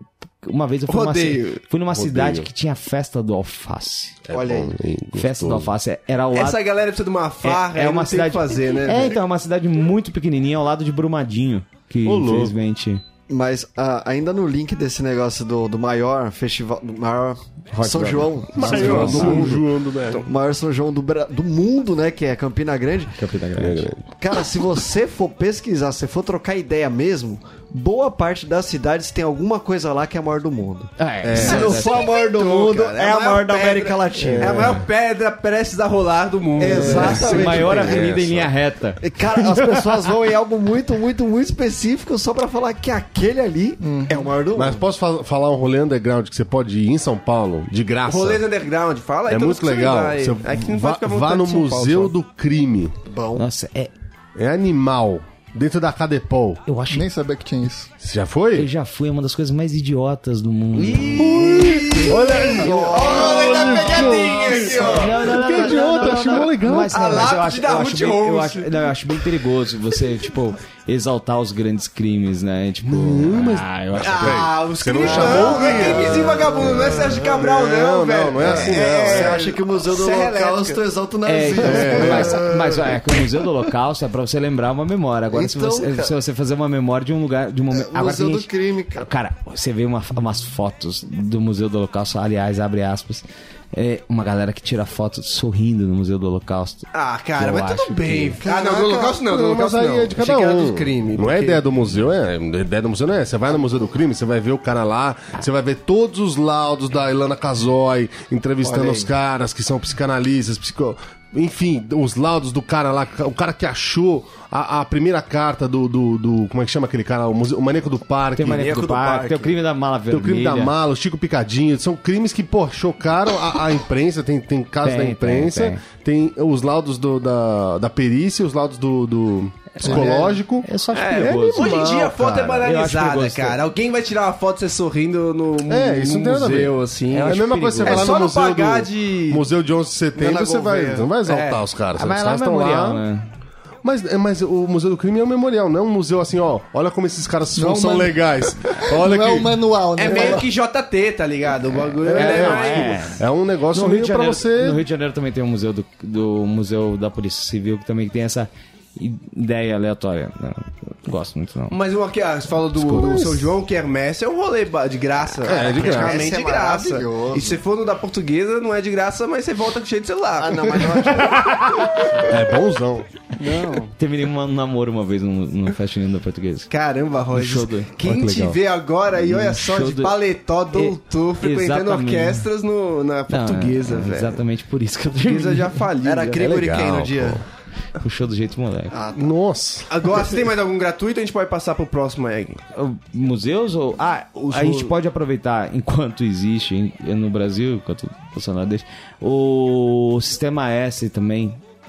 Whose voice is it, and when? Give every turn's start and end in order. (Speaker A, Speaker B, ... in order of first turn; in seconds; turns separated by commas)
Speaker A: 0.4-4.2, Speaker B: 0.9-1.6, Speaker C: 1.9-2.5, Speaker C: 4.3-5.7, Speaker D: 4.3-4.7, Speaker A: 5.2-6.6, Speaker B: 6.3-9.2, Speaker A: 7.4-13.0, Speaker C: 12.1-12.5, Speaker D: 13.3-19.6, Speaker A: 17.7-19.6, Speaker C: 18.5-20.3, Speaker B: 18.7-19.4, Speaker D: 20.2-23.2, Speaker A: 23.2-23.9, Speaker C: 23.6-24.0, Speaker D: 24.2-34.8, Speaker A: 31.0-32.0, Speaker C: 31.2-31.9, Speaker B: 31.4-38.0, Speaker C: 34.2-34.8, Speaker D: 36.6-38.1, Speaker C: 36.7-38.5, Speaker A: 36.8-40.1, Speaker D: 39.0-44.9, Speaker E: 43.8-44.3, Speaker C: 44.5-48.4, Speaker B: 48.1-52.1, Speaker C: 49.3-53.0, Speaker D: 53.1-53.5, Speaker A: 53.4-53.9, Speaker C: 54.4-56.6, Speaker A: 56.7-57.1, Speaker E: 56.9-57.9, Speaker C: 58.0-58.7, Speaker A: 58.5-61.5, Speaker B: 60.8-65.6, Speaker C: 61.2-67.3, Speaker D: 61.2-65.2, Speaker A: 64.8-74.4, Speaker B: 66.9-68.9, Speaker C: 72.9-79.5, Speaker B: 74.0-80.8, Speaker D: 75.0-77.0, Speaker A: 75.1-75.4, Speaker D: 78.4-83.0, Speaker A: 81.2-98.4, Speaker C: 81.6-82.5, Speaker D: 85.3-86.1, Speaker D: 87.7-89.1, Speaker B: 96.9-101.6, Speaker D: 98.4-99.2, Speaker C: 99.2-118.8, Speaker D: 108.6-109.1, Speaker A: 118.3-120.8, Speaker D: 118.4-119.6, Speaker C: 120.1-132.5, Speaker A: 124.8-125.8, Speaker A: 129.8-133.6, Speaker B: 129.9-130.1, Speaker B: 130.9-139.5, Speaker C: 135.7-143.0, Speaker A: 137.1-138.1, Speaker D: 140.1-141.1, Speaker B: 141.2-141.6, Speaker A: 141.9-143.3, Speaker C: 143.8-150.4, Speaker E: 147.5-150.5, Speaker B: 150.0-153.1, Speaker C: 152.0-154.8, Speaker A: 152.1-161.8, Speaker B: 161.7-171.1, Speaker C: 162.8-163.5, Speaker C: 165.4-166.3, Speaker D: 165.5-167.6, Speaker D: 170.4-171.6, Speaker A: 171.2-171.7, Speaker C: 172.2-173.1, Speaker B: 173.4-173.9, Speaker A: 173.9-176.7, Speaker B: 176.7-184.4, Speaker A: 177.3-177.9, Speaker C: 178.0-178.6, Speaker A: 179.2-180.2, Speaker A: 180.7-182.5, Speaker A: 183.3-185.8, Speaker B: 185.2-186.7, Speaker D: 186.0-187.4, Speaker C: 186.4-187.4, Speaker A: 188.0-188.9, Speaker D: 188.9-189.4, Speaker C: 189.1-189.9, Speaker B: 189.9-192.6, Speaker A: 192.8-201.6, Speaker B: 194.4-194.9